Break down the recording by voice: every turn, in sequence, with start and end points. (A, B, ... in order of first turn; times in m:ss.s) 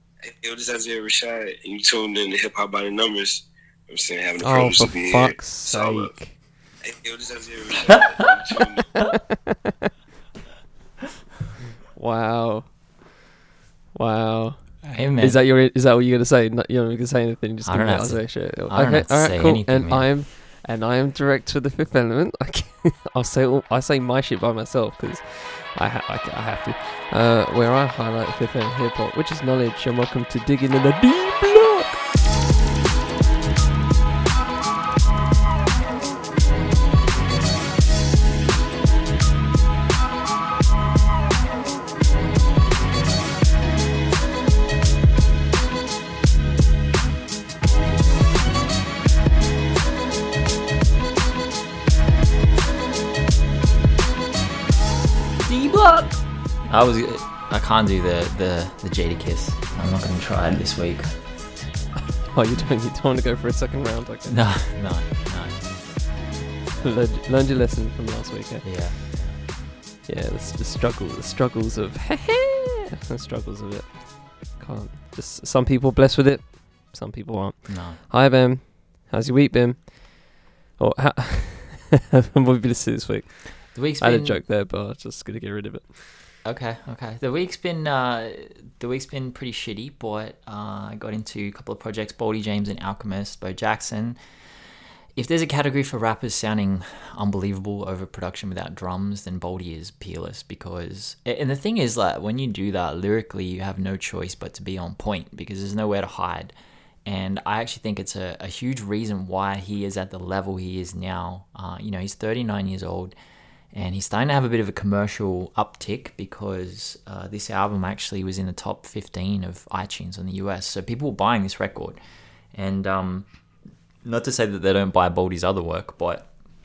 0:00.2-0:06.1 A
0:04.4-0:06.4 B
0:06.8-0:09.0 A
0:09.0-0:09.9 B
0:12.0-0:12.7 B
0:13.9-0:32.0 B
0:14.9-0:15.4 C
0:17.6-0:20.1 C
0:55.5-1:01.1 C
1:02.3-1:04.4 B
1:04.3-1:05.7 C
1:06.8-1:08.8 B
1:08.6-1:09.4 C
1:10.0-1:26.2 B
1:17.7-1:18.0 C
1:23.8-1:24.4 C
1:26.4-1:34.2 C
1:35.2-1:46.5 C
1:47.1-1:53.1 C
1:53.7-2:02.0 C
2:02.6-2:03.3 C
2:04.0-2:06.3 C